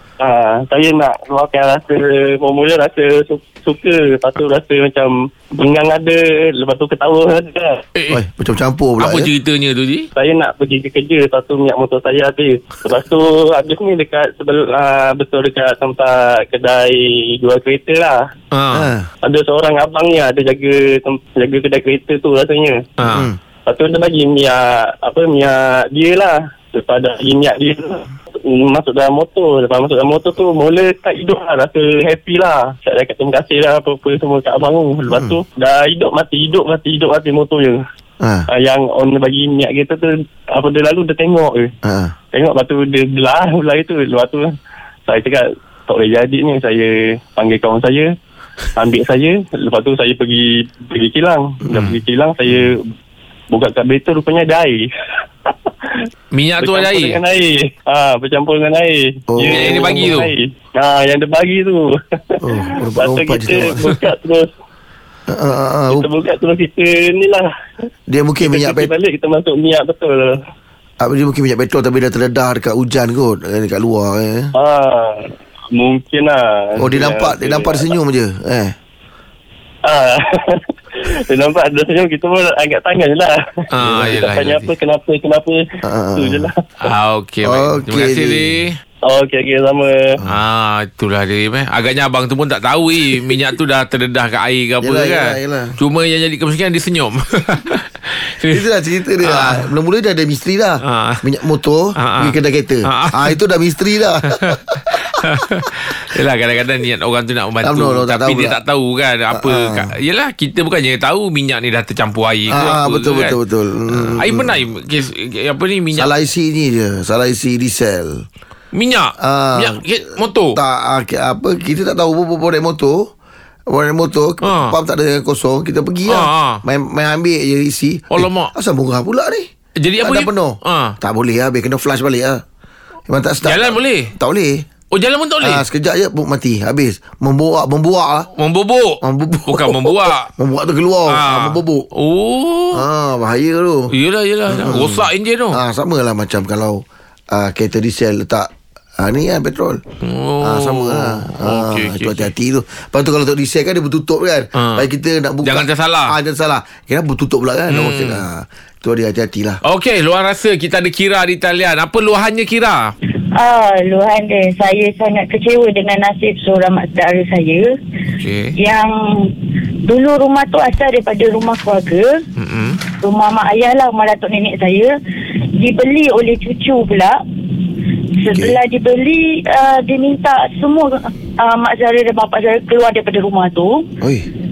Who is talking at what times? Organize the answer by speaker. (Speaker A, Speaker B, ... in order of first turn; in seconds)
Speaker A: 0.2-7.8, 10.2-18.2, 19.2-22.8, 23.6-37.8, 38.5-41.7, 42.3-44.5, 45.1-48.1, 48.8-52.9, 53.5-54.8, 55.5-56.0, 56.6-64.5, 65.9-67.5, 68.4-70.4, 74.5-77.9, 79.8-85.6, 86.2-86.6, 89.0-90.2
Speaker B: 8.1-9.3, 18.7-19.1, 23.1-23.4, 35.1-35.4, 38.2-38.5, 41.8-42.1, 59.3-59.8, 62.4-63.9, 65.3-66.1, 68.1-68.9, 71.0-74.5, 76.8-78.8, 85.8-86.5, 87.4-88.6, 94.8-95.8, 98.5-105.0, 107.6-108.6, 109.3-109.9, 112.5-114.5, 115.9-118.2, 119.2-119.8, 120.5-123.1, 123.7-129.5, 130.0-132.4, 133.1-134.7, 135.4-138.3, 139.0-141.8, 142.7-143.9, 144.5-149.8, 150.4-159.6, 178.3-178.6, 184.0-184.3
Speaker C: 9.0-10.1, 18.5-18.9, 23.0-23.3, 56.3-57.2, 59.5-60.3, 83.7-84.7, 86.8-88.8, 90.3-98.7, 99.2-99.7, 100.8-101.2, 102.0-103.4, 104.4-113.4, 113.9-116.1, 118.7-120.6, 124.4-124.8, 126.1-126.6, 128.1-128.5, 129.8-130.9, 133.4-134.1, 134.9-135.6, 138.4-140.3, 141.1-142.8, 143.9-145.6, 150.0-152.3, 154.6-154.9, 155.4-156.1, 157.7-158.2, 159.6-162.9, 168.2-168.5, 172.4-172.8
Speaker D: 163.3-167.7, 168.6-172.2, 173.0-174.9, 175.5-177.2, 178.2-183.9